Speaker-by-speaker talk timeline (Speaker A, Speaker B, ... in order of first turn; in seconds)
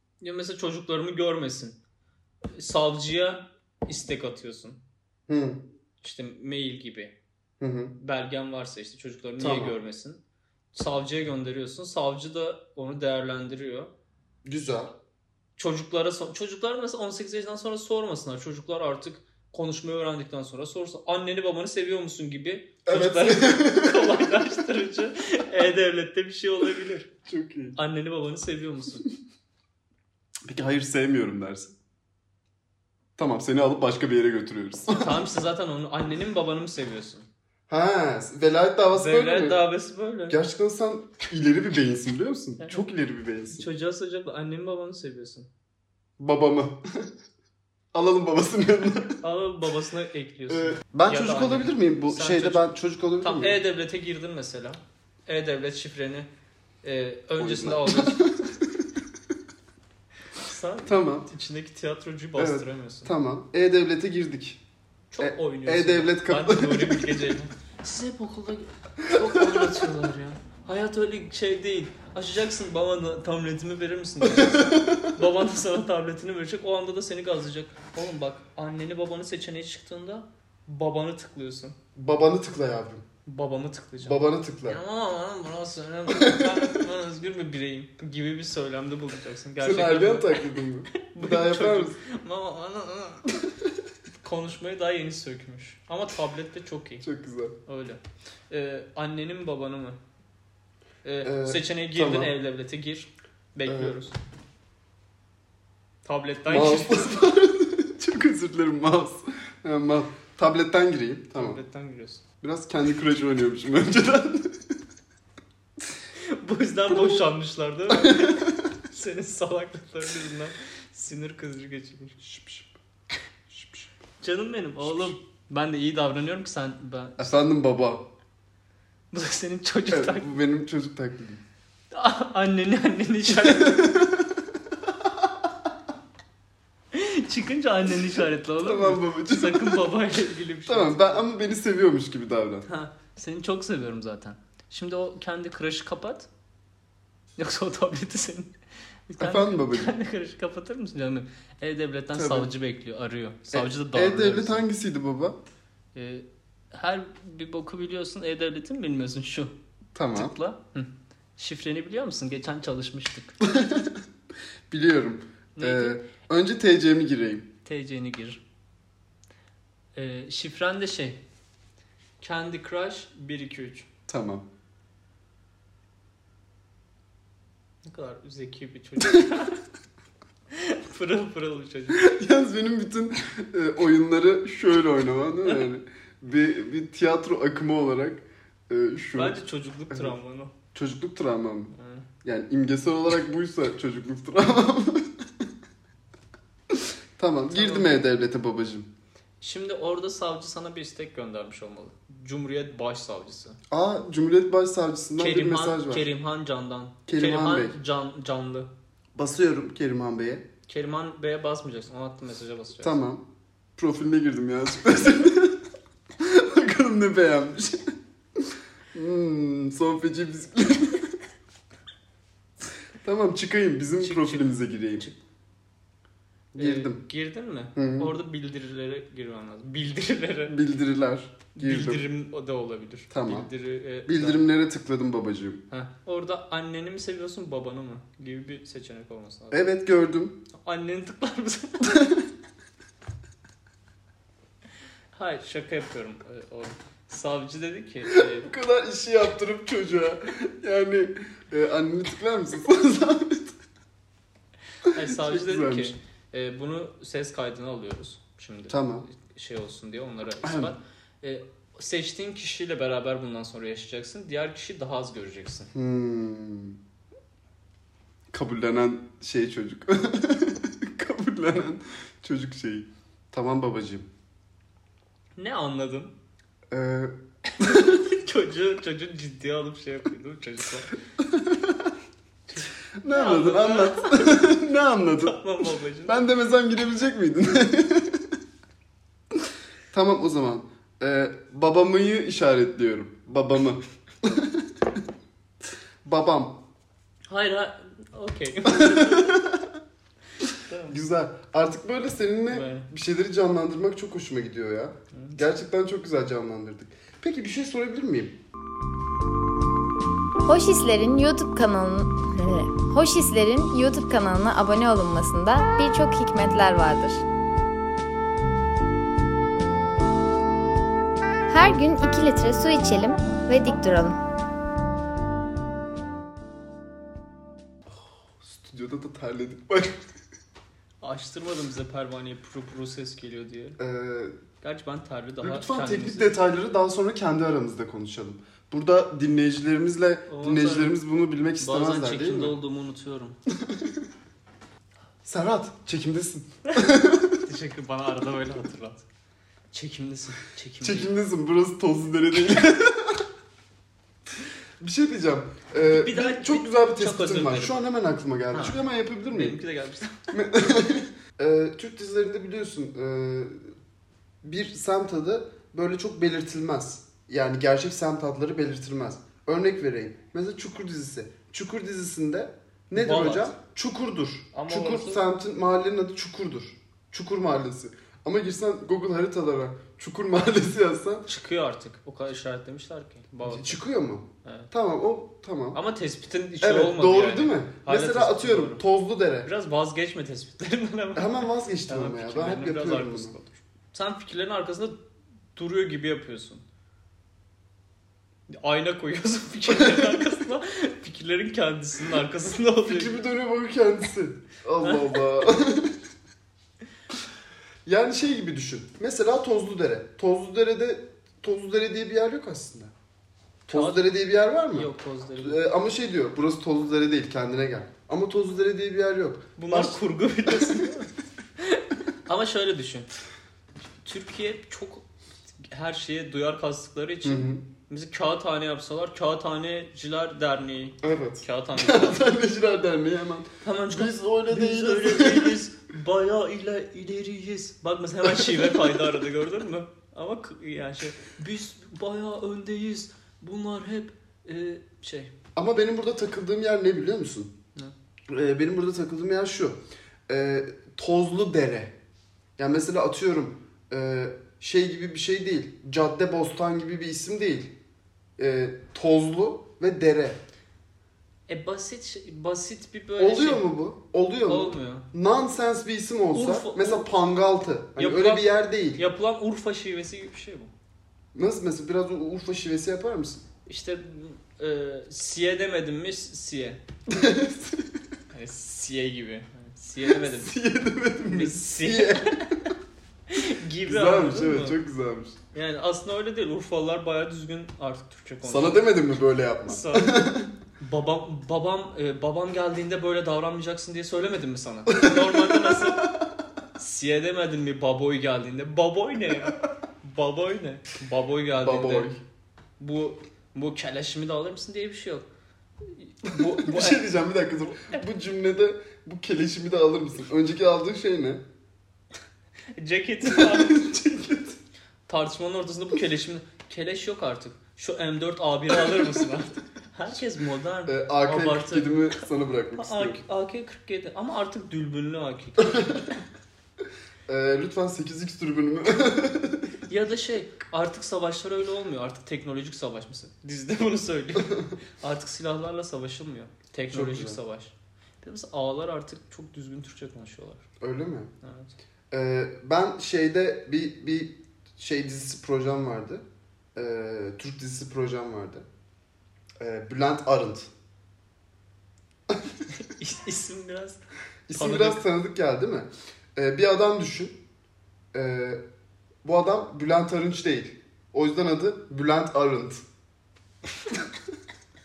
Speaker A: 0.2-1.8, 2.5-4.8, 6.0-7.2, 8.0-10.2, 10.7-13.9, 15.6-27.1, 27.8-29.0, 34.9-37.3, 38.9-40.4, 42.6-42.9, 43.5-45.5, 49.2-52.7, 53.2-56.3, 56.8-58.3, 60.4-63.1, 65.1-81.8, 83.2-93.3, 94.2-97.0, 97.7-100.0, 101.0-104.2, 106.0-107.2, 111.3-112.2, 116.1-122.2, 124.2-127.3, 129.1-130.4, 131.9-134.0, 136.9-141.2, 142.7-146.3, 147.4-148.5, 149.1-154.7, 155.9-159.5, 160.1-163.4, 165.6-166.0, 167.6-168.4, 169.9-171.2, 172.2-173.9, 177.8-179.6, 180.5-182.0, 189.1-190.5, 191.7-192.1, 197.5-198.0, 199.4-203.6, 205.2-208.7, 210.7-213.0, 224.0-225.2, 226.6-230.6, 231.6-234.4, 235.7-239.6, 240.5-242.1, 245.1-248.5, 254.8-265.7, 275.4-276.1, 277.4-280.9, 282.5-284.5, 285.2-286.2, 297.3-299.4, 300.4-301.0, 302.5-302.9, 305.1-305.5, 331.0-333.8, 334.6-336.4, 340.3-341.0, 341.6-343.4, 347.4-349.1, 349.7-351.1, 355.8-357.8, 358.5-360.3, 372.9-373.5, 374.5-375.2, 381.3-383.8, 384.4-384.7, 385.7-388.8, 389.4-395.0, 395.6-396.6, 398.5-403.2, 404.8-405.1, 413.7-414.1, 414.7-415.6, 419.6-423.1, 424.0-425.0, 425.6-432.2, 433.6-445.3, 461.5-463.7, 464.5-465.1, 466.3-467.1, 468.0-470.7, 473.7-476.8, 478.3-480.6, 481.2-482.7, 483.3-484.8, 485.5-488.9, 489.7-490.2, 490.8-496.1, 496.8-502.1, 502.8-505.3, 505.8-507.1, 507.7-508.0, 512.8-514.0, 515.1-522.2, 522.7-526.2, 529.9-540.6, 541.4-541.7, 552.7-555.0
Speaker B: 5.3-5.7, 7.6-7.9, 9.4-9.8, 14.4-15.0, 22.8-24.6, 27.2-27.8, 30.5-31.8, 33.2-35.3, 37.7-39.6, 40.3-43.6, 46.2-47.1, 47.9-49.2, 50.5-53.6, 57.4-58.9, 60.8-61.3, 62.4-64.6, 65.2-67.3, 69.0-69.8, 74.3-75.1, 82.0-83.0, 84.0-84.8, 86.1-86.8, 89.6-92.0, 97.0-97.5, 101.2-102.3, 103.6-104.0, 106.5-111.6, 112.4-114.7, 117.9-118.7, 122.2-122.7, 123.5-123.9, 124.8-125.1, 127.2-128.1, 129.9-131.4, 133.3-134.5, 135.0-135.3, 138.6-139.9, 140.7-142.7, 149.2-149.9, 152.1-152.5, 153.5-155.4, 159.9-160.3, 163.4-164.0, 164.7-167.5, 174.1-174.4, 181.9-189.4, 189.9-190.2, 190.7-191.7, 192.2-195.4, 196.7-198.9, 203.7-206.1, 207.1-207.7, 209.1-210.4, 212.8-213.2, 213.8-215.6, 216.2-221.1, 223.0-225.1, 226.5-227.0, 227.8-228.1, 230.5-232.0, 233.1-233.5, 234.1-235.6, 239.5-240.4, 241.9-242.2, 248.1-253.6, 254.9-255.9, 258.7-259.1, 260.4-260.7, 265.7-266.8, 268.3-274.1, 276.7-278.0, 281.2-281.9, 283.0-288.4, 289.3-294.8, 296.0-296.6, 298.6-299.7, 300.9-308.4, 327.9-330.0, 333.8-334.4, 335.4-342.6, 343.5-344.0, 345.2-347.4, 350.8-353.3, 354.8-359.6, 360.3-363.7, 364.4-381.2, 383.4-385.8, 386.6-389.5, 391.1-393.4, 399.7-400.2, 402.9-406.0, 407.8-412.9, 413.7-420.9, 427.2-427.6, 431.0-435.6, 438.2-439.0, 445.6-447.5, 448.3-451.9, 452.6-457.7, 458.4-460.4, 463.2-469.0, 471.3-473.4, 477.1-477.9, 480.0-482.7, 483.8-485.4, 488.4-490.5, 494.9-496.0, 501.5-502.2, 506.3-511.4, 513.2-514.6, 520.9-523.2, 525.7-526.0, 527.3-529.7, 536.9-537.4, 540.8-541.3, 542.1-546.2, 546.7-548.6, 549.6-550.7, 554.5-557.4, 558.1-558.6, 559.2-562.8
Speaker C: 310.4-317.2, 321.5-324.2